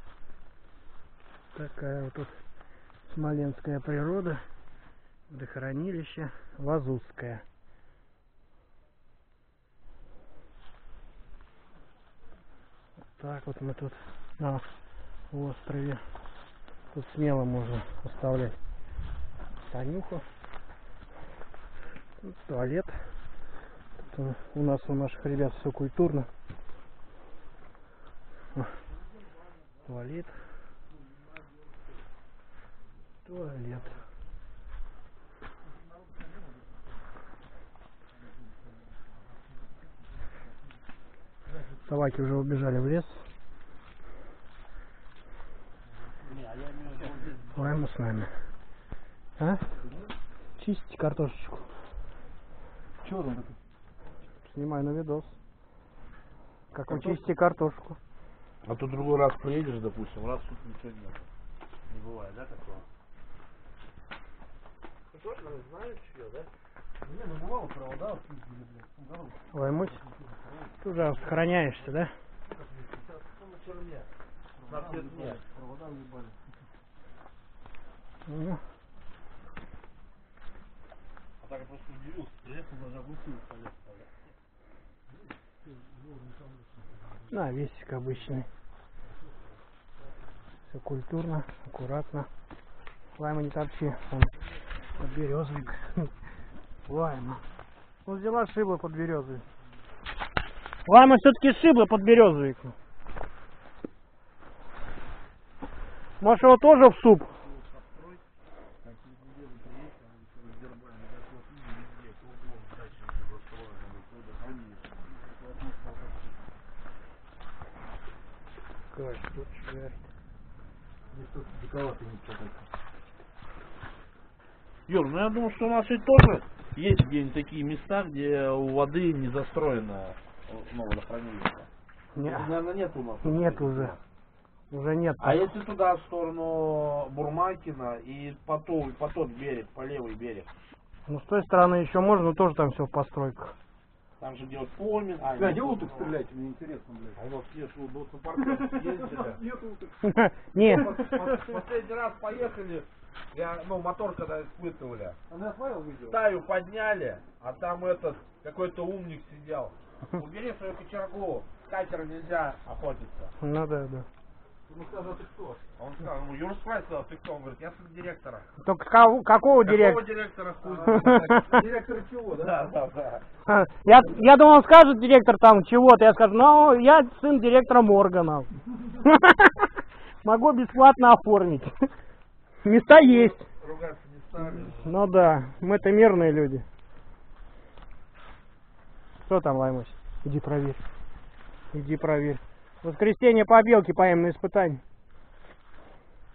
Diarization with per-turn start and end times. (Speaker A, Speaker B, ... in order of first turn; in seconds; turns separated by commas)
Speaker A: 1.5-2.4, Speaker A: 3.1-4.4, Speaker A: 5.3-7.4, Speaker A: 13.2-14.6, Speaker A: 15.3-16.0, Speaker A: 16.9-18.6, Speaker A: 19.7-20.3, Speaker A: 22.2-23.1, Speaker A: 24.0-26.3, Speaker A: 29.9-30.3, Speaker A: 33.2-34.0, Speaker A: 41.8-43.2, Speaker B: 46.2-47.6, Speaker A: 47.5-48.3, Speaker A: 49.4-49.6, Speaker C: 49.8-50.1, Speaker A: 50.6-51.7, Speaker C: 53.0-53.6, Speaker A: 54.5-55.4, Speaker A: 56.7-58.0, Speaker B: 56.9-57.2, Speaker B: 58.6-61.3, Speaker B: 61.9-62.9, Speaker B: 65.1-66.5, Speaker C: 67.0-71.0, Speaker A: 69.5-70.0, Speaker A: 70.8-72.1, Speaker B: 72.5-74.1, Speaker C: 74.6-76.4, Speaker B: 74.7-75.4, Speaker A: 78.3-78.6, Speaker B: 81.4-84.1, Speaker C: 85.6-87.2, Speaker A: 87.3-88.5, Speaker A: 90.7-92.3, Speaker A: 93.2-96.1, Speaker A: 96.9-97.4, Speaker A: 98.0-99.4, Speaker A: 100.9-102.8, Speaker A: 106.2-107.3, Speaker B: 107.3-108.2, Speaker C: 108.8-109.2, Speaker B: 109.3-114.8, Speaker C: 114.9-116.4, Speaker A: 118.9-120.0, Speaker C: 121.1-122.7, Speaker B: 124.9-131.7, Speaker A: 132.2-132.5, Speaker B: 132.2-134.0, Speaker A: 133.2-133.9, Speaker A: 134.7-135.4, Speaker B: 135.2-140.5, Speaker A: 141.1-143.5, Speaker B: 144.2-146.2, Speaker C: 145.2-147.2, Speaker B: 147.2-149.4, Speaker C: 148.6-150.0, Speaker A: 150.0-151.2, Speaker C: 150.6-151.2, Speaker B: 150.7-155.2, Speaker C: 155.3-156.2, Speaker B: 156.1-163.3, Speaker A: 163.4-164.1, Speaker C: 164.7-165.7, Speaker B: 165.8-168.5, Speaker A: 168.6-170.0, Speaker B: 169.6-171.5, Speaker C: 170.6-172.5, Speaker A: 171.0-171.5, Speaker B: 172.4-173.2, Speaker A: 173.5-179.7, Speaker A: 180.2-181.7, Speaker A: 182.6-183.4, Speaker B: 182.9-185.0, Speaker A: 184.6-186.7, Speaker A: 189.2-190.8, Speaker A: 191.7-194.8